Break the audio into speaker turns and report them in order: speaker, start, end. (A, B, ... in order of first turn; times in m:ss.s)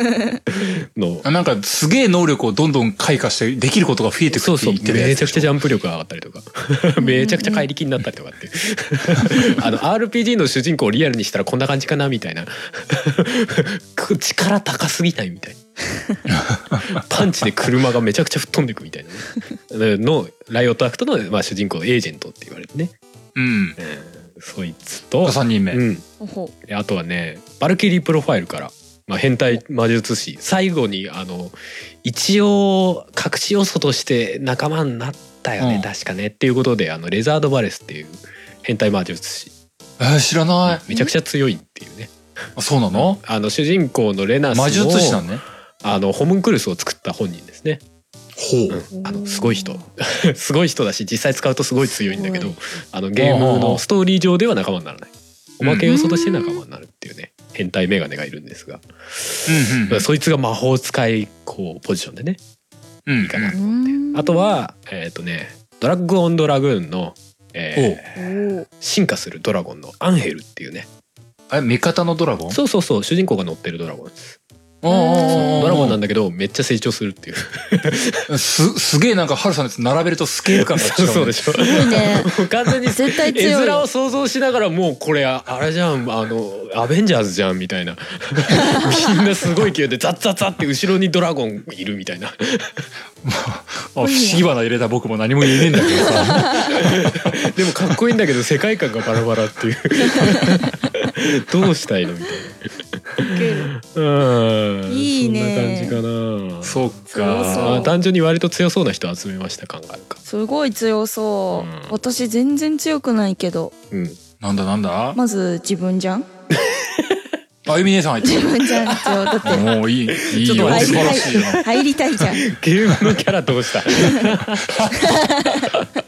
0:00.5-0:01.3 A
0:01.2-0:05.5 B
0:04.3-0:15.6 A
0:07.0-0:07.7 C
0:16.3-0:17.0 B
0:16.9-0:23.0 A
0:23.4-0:23.8 B
0:23.8-0:26.0 A
0:25.2-0:25.8 B
0:26.2-0:26.5 C
0:26.6-0:39.5 A
0:35.6-0:35.9 B
0:40.0-0:40.8 B
0:40.6-0:42.1 A
0:42.6-0:43.2 B
0:42.9-0:45.2 A
0:44.5-0:45.4 B
0:45.8-0:47.8 A
0:48.4-0:48.8 B
0:48.7-1:02.4 A
0:48.9-0:49.8 C
0:51.9-0:52.6 C
0:53.2-0:53.8 B
0:55.6-0:55.9 B
0:55.9-0:56.6 C
0:59.5-1:00.1 B
1:03.1-1:03.6 B
1:03.2-1:10.9 A
1:03.5-1:04.6 C
1:07.8-1:08.0 B
1:08.2-1:08.7 C
1:11.5-1:12.6 B
1:12.5-1:14.4 A
1:14.8-1:16.0 B
1:14.9-1:15.8 C
1:15.3-1:18.3 A
1:18.3-1:21.6 B
1:20.5-1:32.9 A
1:21.5-1:22.4 C
1:22.9-1:23.9 C
1:28.6-1:29.0 C
1:33.2-1:36.8 B
1:34.0-1:34.5 C
1:35.6-1:50.2 A
1:36.0-1:36.8 C
1:40.1-1:40.7 C
1:43.2-1:43.7 C
1:44.9-1:46.0 C
1:46.6-1:47.9 B
1:47.1-1:48.0 C
1:50.3-1:53.7 C
1:51.5-1:52.0 A
1:53.9-1:54.2 A
1:54.4-1:55.2 B
1:55.2-1:56.3 C
1:56.5-1:57.3 A
1:57.7-1:58.9 B
1:58.2-1:59.8 C
1:58.9-2:01.8 A
1:59.4-2:01.6 B
2:00.5-2:02.4 C
2:02.4-2:04.9 A
2:04.0-2:04.4 C
2:04.7-2:04.9 B
2:04.9-2:05.9 C
2:05.6-2:05.9 A